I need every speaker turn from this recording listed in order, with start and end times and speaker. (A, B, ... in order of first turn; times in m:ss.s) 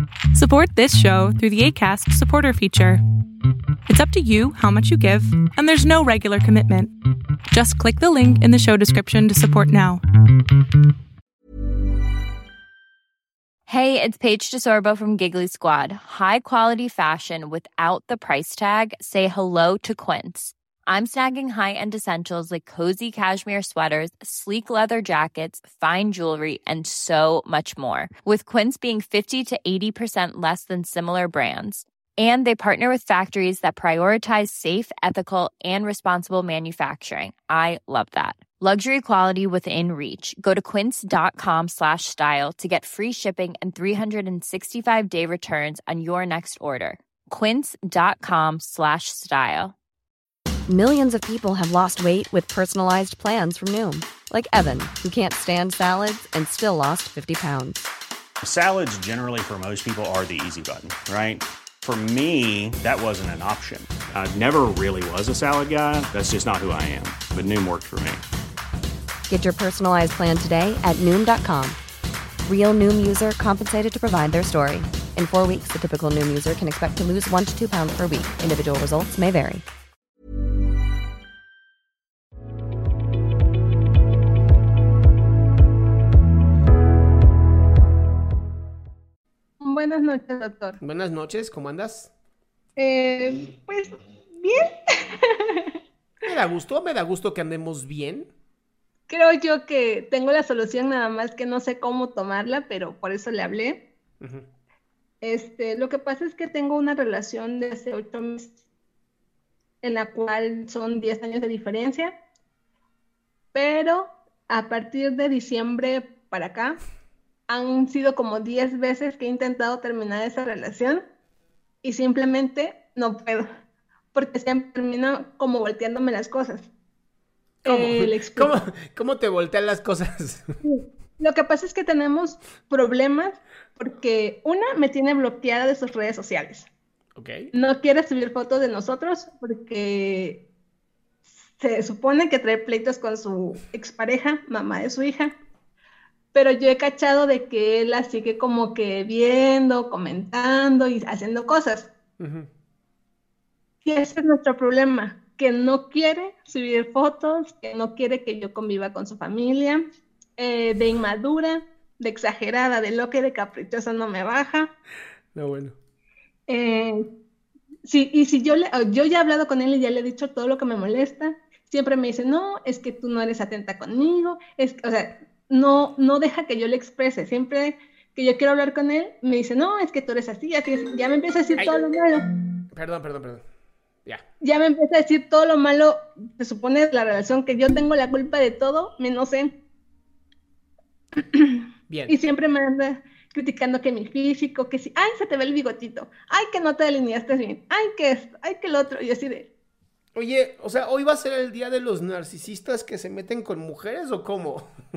0:00.3-0:03.0 A
0:03.9-0:06.9 A
0:07.5-0:10.0 A
0:13.7-0:49.8 B
0:50.7-0:57.9 C
0:58.4-1:08.2 D
1:09.3-1:11.8 C
1:12.5-1:19.6 C
1:29.6-1:30.8 E
1:30.8-1:32.1 F
1:32.8-1:35.8 E
1:36.2-1:38.3 F
1:39.1-1:43.8 E
1:45.2-1:48.5 E
1:49.8-1:52.2 E
1:53.5-1:56.8 E
1:57.5-2:01.0 E
2:01.8-2:03.4 E
2:04.1-2:06.7 E
2:07.6-2:08.6 E
2:07.6-2:10.5 F
2:10.6-2:16.7 E
2:17.2-2:17.4 F
2:17.5-2:20.4 E
2:21.6-2:25.4 E
2:26.3-2:31.9 E
2:32.2-2:32.5 F
2:33.8-2:39.8 E
2:40.4-2:44.7 E
2:45.4-2:45.8 F
2:46.5-2:47.0 E
2:47.8-3:02.2 E
3:02.8-3:03.4 F
3:04.4-3:09.5 E
3:11.2-3:19.5 E
3:20.2-3:24.7 F